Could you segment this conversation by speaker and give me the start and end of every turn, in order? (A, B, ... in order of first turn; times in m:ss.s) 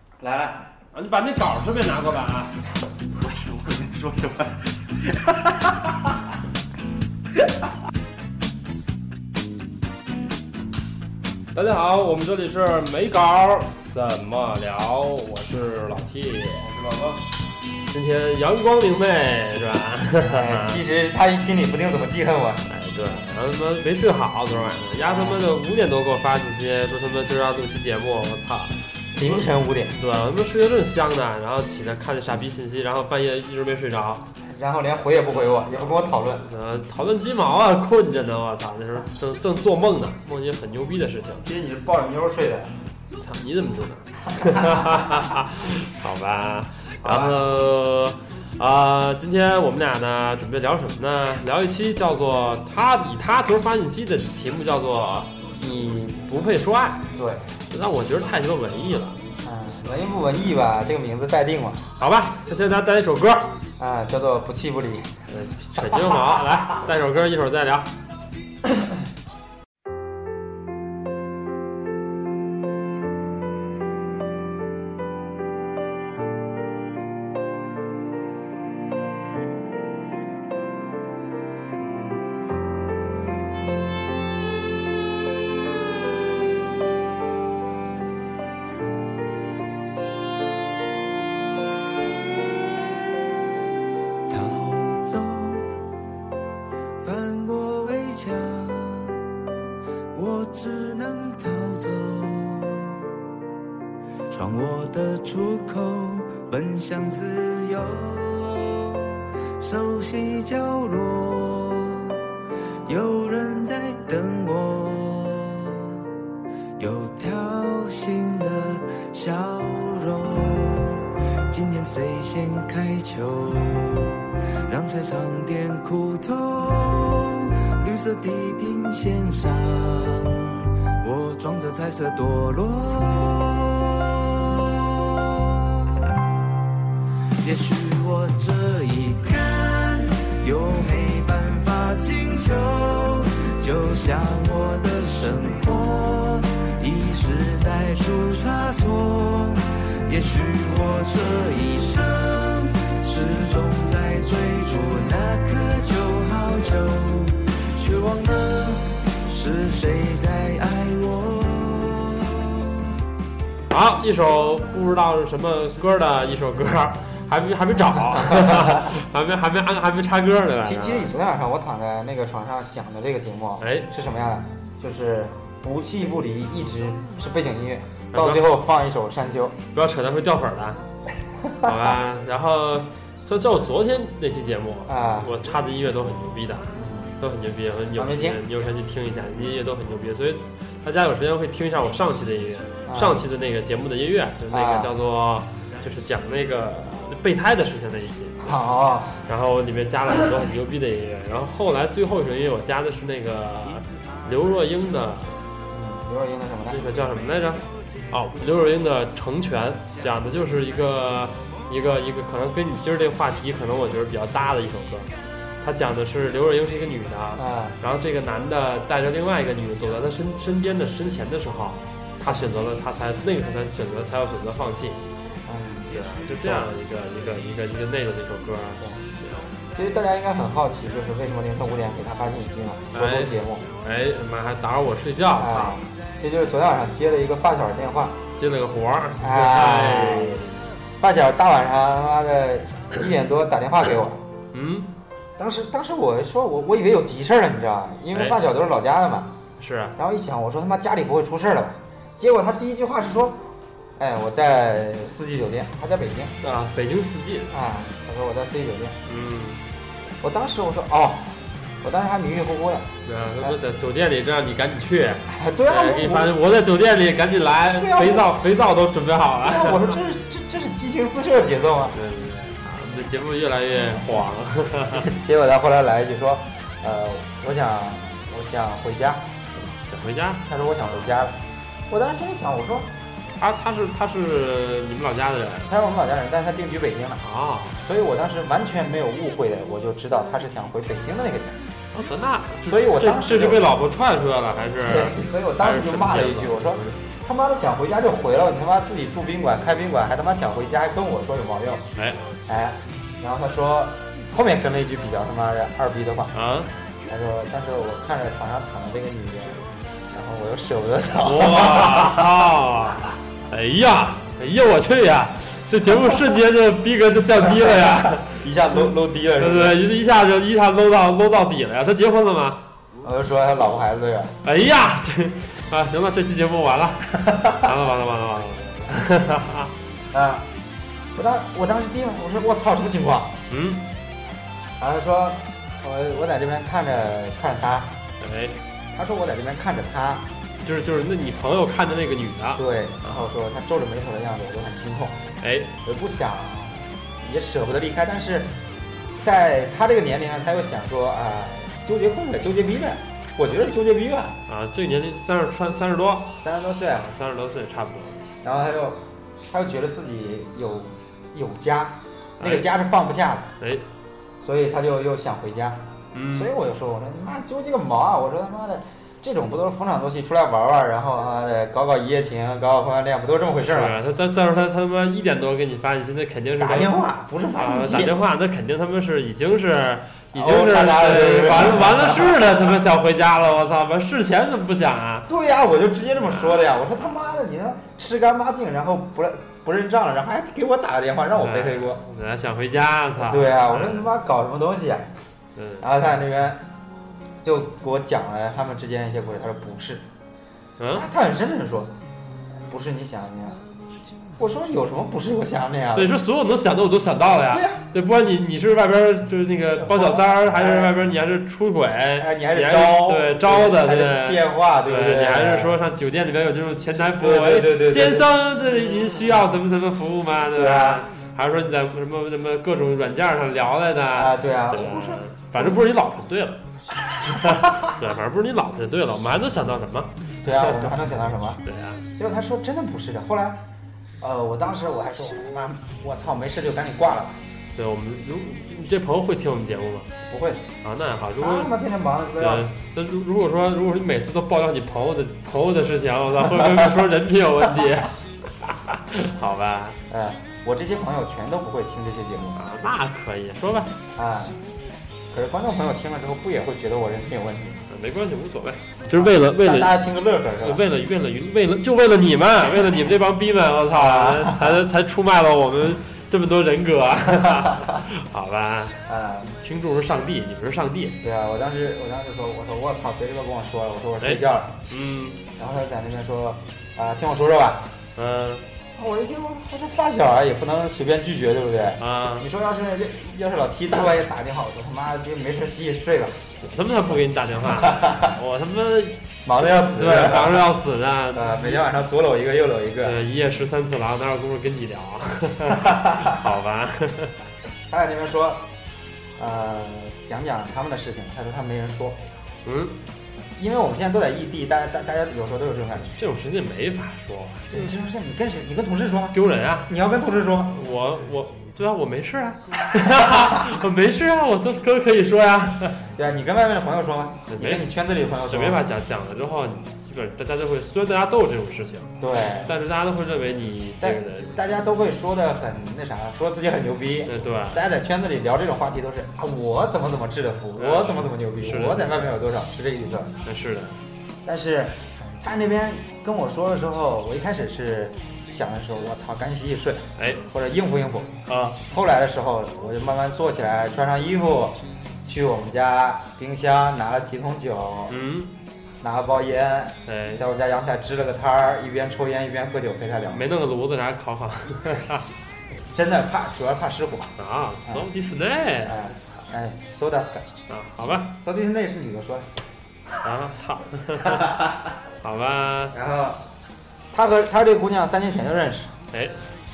0:00.2-0:00.7 A
0:00.9-0:02.5 B
0:03.2-0:04.5 A
0:11.5-0:17.2 B
0:17.9-0:20.8 B
0:20.3-0:22.6 A
0:22.7-0:34.3 B
0:25.0-0:25.4 A
0:29.2-0:30.0 A
0:34.4-0:36.5 A
0:35.8-0:41.4 B
0:41.4-0:42.7 A
0:43.2-0:55.3 B
0:44.4-0:44.9 A
0:47.0-0:47.4 A
0:55.6-0:56.2 A
0:56.2-0:57.0 B
0:57.2-0:57.5 A
0:57.7-0:59.2 B
0:59.4-1:01.9 A
1:02.0-1:03.6 B
1:03.8-1:05.1 A
1:05.3-1:07.9 B
1:05.8-1:06.2 A
1:34.3-1:35.7 C
1:37.0-1:39.2 C
1:40.1-1:43.1 C
1:44.3-1:52.2 C
1:52.9-1:56.0 C
1:56.8-2:15.8 C
2:17.4-2:42.7 C
2:43.7-2:51.1 B
2:48.1-2:48.9 A
2:50.6-2:59.6 A
2:53.6-2:53.9 B
2:58.1-2:58.5 B
2:59.7-3:00.8 B
3:01.4-3:01.7 A
3:01.6-3:18.6 B
3:04.9-3:05.3 A
3:06.7-3:07.1 A
3:08.0-3:08.4 A
3:12.9-3:13.2 A
3:14.5-3:14.9 A
3:18.4-3:19.2 A
3:19.3-3:25.4 B
3:25.7-3:27.2 A
3:26.7-3:45.0 B
3:37.4-3:37.8 A
3:45.5-3:46.7 A
3:45.9-3:49.6 B
3:49.7-3:53.7 A
3:52.9-3:55.8 B
3:55.4-3:58.2 A
3:58.4-4:00.5 B
3:59.2-4:00.4 A
4:01.0-4:04.2 A
4:04.5-4:04.9 B
4:05.4-4:09.4 A
4:08.1-4:08.4 B
4:09.6-4:10.0 B
4:10.0-4:13.4 A
4:14.0-4:16.3 A
4:16.4-4:17.5 B
4:17.5-4:19.0 A
4:19.1-4:19.6 B
4:20.2-4:23.6 A
4:23.1-4:30.0 B
4:25.3-4:26.4 A
4:27.8-4:28.3 A
4:29.4-4:32.0 A
4:31.9-4:35.1 B
4:34.9-4:39.6 A
4:39.6-4:41.2 B
4:40.5-4:42.9 A
4:43.4-4:45.7 B
4:45.7-4:47.2 A
4:47.2-4:47.8 B
4:47.8-4:51.6 A
4:51.9-4:57.0 B
4:52.7-4:53.7 A
4:54.8-5:01.9 A
5:02.0-5:02.2 B
5:02.5-5:06.4 A
5:06.3-5:06.7 B
5:07.1-5:12.3 A
5:11.2-5:18.4 B
5:17.4-5:19.8 A
5:19.4-5:22.6 B
5:23.0-5:24.4 A
5:24.4-5:29.7 B
5:27.3-5:27.6 A
5:30.1-5:30.5 A
5:31.2-5:33.4 A
5:33.5-5:33.9 B
5:34.8-5:38.0 A
5:38.2-5:38.6 B
5:38.9-5:40.3 A
5:40.6-5:43.3 B
5:42.6-5:45.2 A
5:45.4-5:45.7 B
5:45.8-5:48.6 A
5:49.2-5:54.4 A
5:54.5-5:58.2 B
5:56.4-5:57.1 A
5:58.4-6:03.5 A
6:02.4-6:02.7 B
6:03.6-6:03.9 B
6:04.4-6:14.0 A
6:06.1-6:06.5 B
6:13.6-6:17.0 B
6:16.6-6:18.1 A
6:17.6-6:25.3 B
6:20.3-6:22.5 A
6:25.3-6:32.0 A
6:26.2-6:26.7 B
6:31.4-6:34.1 B
6:33.2-6:35.1 A
6:35.6-6:35.9 B
6:35.8-6:36.7 A
6:37.4-6:40.1 A
6:40.8-6:41.1 B
6:40.9-6:41.9 A
6:42.7-6:43.6 A
6:44.4-6:46.2 A
6:46.0-7:06.6 B
6:47.3-6:47.8 A
6:49.7-6:50.9 A
6:52.2-6:55.8 A
6:57.2-6:58.4 A
7:00.5-7:01.0 A
7:04.1-7:05.8 A
7:07.2-7:11.0 B
7:07.3-7:07.8 A
7:10.4-7:11.6 A
7:11.6-7:12.0 B
7:12.2-7:13.7 A
7:14.2-7:17.4 A
7:17.8-7:20.1 B
7:20.3-7:20.6 A
7:20.8-7:21.7 B
7:21.4-7:22.7 A
7:22.4-7:30.0 B
7:30.1-7:32.6 A
7:32.6-7:34.0 B
7:34.2-7:34.6 A
7:35.3-7:37.8 A
7:37.9-7:40.0 B
7:39.1-7:40.8 A
7:40.6-7:51.2 B
7:43.9-7:44.8 A
7:49.1-7:49.5 A
7:51.2-7:54.8 A
7:54.2-7:55.4 B
7:55.6-7:57.9 A
7:58.2-7:58.6 B
7:59.0-8:06.4 A
8:02.0-8:02.5 B
8:06.6-8:11.8 B
8:07.8-8:08.3 A
8:09.4-8:10.7 A
8:11.3-8:13.2 A
8:13.0-8:17.4 B
8:15.8-8:16.4 A
8:17.9-8:18.7 A
8:19.4-8:22.2 A
8:22.6-8:23.0 B
8:23.6-8:26.3 A
8:26.2-8:27.9 B
8:27.7-8:30.7 A
8:29.3-8:29.9 B
8:30.7-8:36.1 B
8:36.1-8:38.8 A
8:37.5-8:37.9 B
8:38.5-8:44.6 B
8:42.2-8:42.7 A
8:44.0-8:53.4 A
8:47.3-8:47.8 B
8:50.8-8:52.3 B
8:53.4-8:54.0 B
8:54.4-9:01.4 A
9:00.2-9:00.4 B
9:01.5-9:01.8 B
9:01.9-9:08.2 A
9:08.1-9:08.5 B
9:09.0-9:13.4 A
9:10.1-9:10.4 B
9:13.3-9:15.3 B
9:15.9-9:18.1 A
9:17.4-9:19.2 B
9:18.8-9:20.5 A
9:20.7-9:21.4 B
9:21.4-9:22.5 A
9:23.2-9:24.6 B
9:24.2-9:24.8 A
9:25.2-9:26.0 B
9:25.9-9:26.5 A
9:27.1-9:28.9 A
9:29.1-9:29.4 B